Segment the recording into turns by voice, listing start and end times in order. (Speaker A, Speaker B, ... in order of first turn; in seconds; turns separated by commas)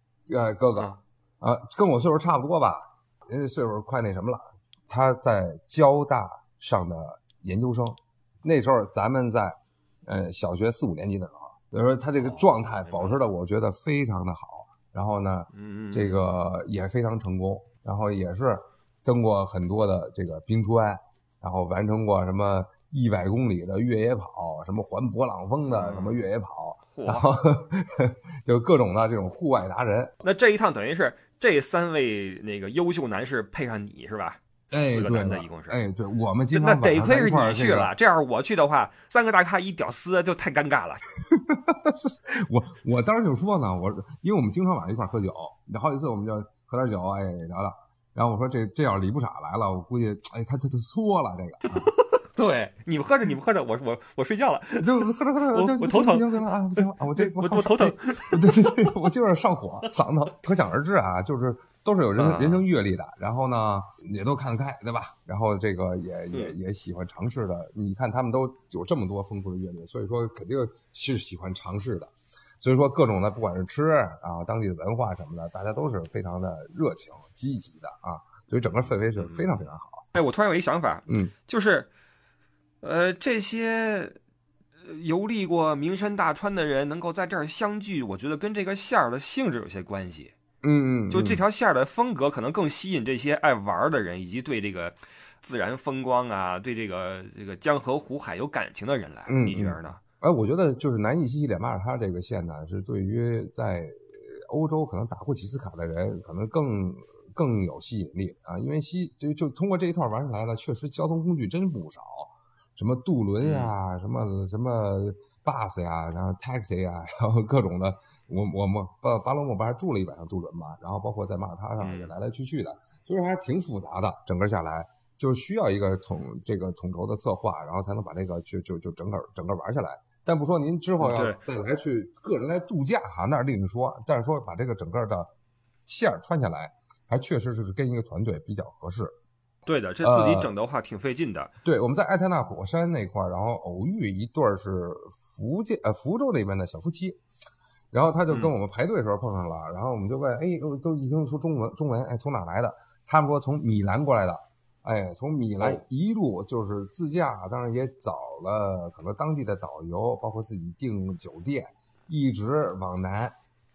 Speaker A: 0.3-30.1, Speaker B: 12.2-13.2, Speaker B: 15.5-16.4, Speaker B: 25.7-26.2, Speaker B: 26.9-27.3, Speaker B: 30.2-35.8, Speaker A: 34.7-37.9, Speaker B: 36.5-41.0, Speaker A: 41.3-51.9, Speaker B: 51.8-58.9, Speaker A: 54.8-80.1, Speaker B: 62.2-62.6, Speaker B: 79.2-79.5, Speaker B: 80.1-81.9, Speaker A: 81.1-81.3, Speaker B: 82.8-84.2, Speaker B: 84.8-90.3, Speaker A: 90.6-91.4, Speaker B: 91.1-100.0, Speaker A: 99.3-135.3, Speaker B: 113.4-113.7, Speaker B: 121.8-122.1, Speaker B: 131.0-131.4, Speaker A: 135.9-139.1, Speaker B: 139.7-141.5, Speaker A: 140.0-140.5, Speaker A: 141.6-147.2, Speaker A: 147.9-163.3